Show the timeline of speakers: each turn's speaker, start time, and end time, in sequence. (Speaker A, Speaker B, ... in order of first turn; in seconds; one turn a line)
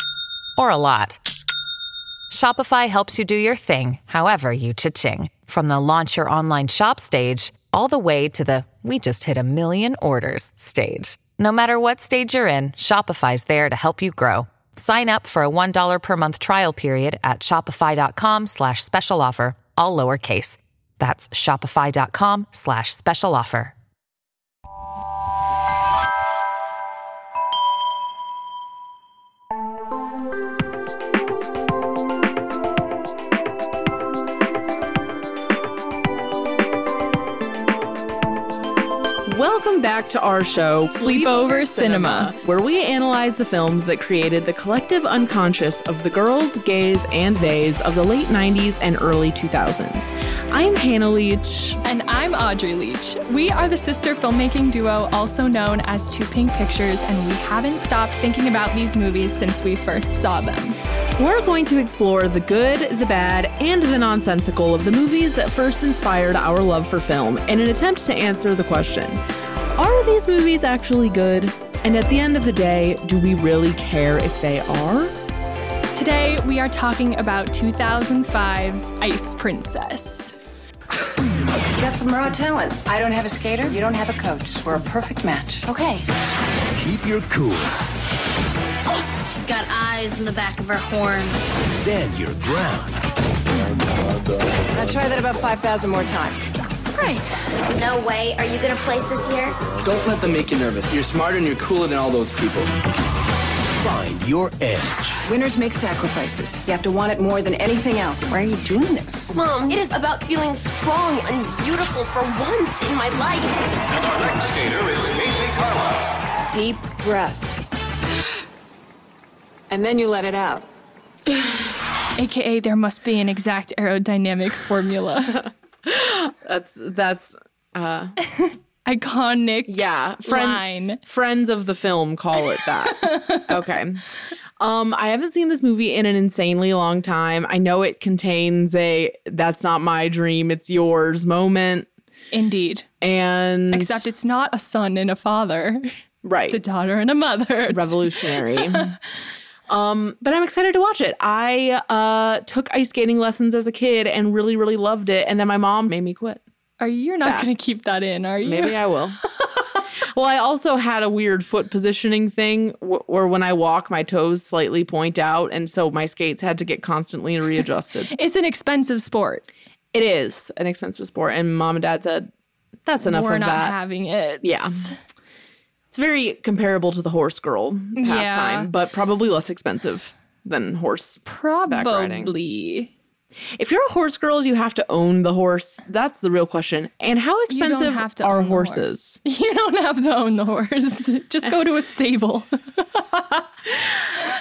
Speaker A: 0.6-1.2
Speaker A: 2.3-23.7
Speaker B: 39.3-51.8
Speaker C: 41.0-42.3
Speaker C: 51.8-60.8
Speaker B: 61.2-69.2
Speaker B: 69.7-75.2
Speaker C: 75.9-80.3
Speaker D: 81.7-86.0
Speaker E: 86.7-87.7
Speaker F: 89.2-91.4
Speaker E: 91.6-93.0
Speaker D: 94.7-97.2
Speaker G: 97.7-99.6
Speaker H: 99.8-102.7
Speaker E: 103.8-105.2
Speaker D: 105.2-109.3
Speaker G: 109.3-115.2
Speaker D: 116.5-117.5
Speaker D: 119.7-120.6
Speaker C: 122.2-125.5
Speaker B: 125.4-128.2
Speaker C: 128.2-131.0
Speaker B: 129.7-134.0
Speaker C: 132.9-133.5
Speaker B: 134.6-141.9
Speaker C: 142.3-142.8
Speaker B: 143.0-144.1
Speaker C: 143.7-145.9
Speaker B: 146.2-146.6
Speaker C: 146.5-148.9
Speaker B: 147.7-148.9
Speaker B: 149.7-156.4
Speaker C: 156.8-158.8
Speaker B: 157.2-157.8
Speaker B: 158.4-159.2
Speaker B: 160.1-168.1
Speaker C: 168.1-169.4
Speaker B: 169.9-172.3
Speaker B: 172.8-173.8
Speaker C: 173.0-174.9
Speaker B: 174.4-174.9
Speaker B: 175.9-182.3
Speaker C: 177.9-178.7
Speaker C: 181.2-182.9
Speaker B: 183.6-189.2
Speaker C: 187.5-193.5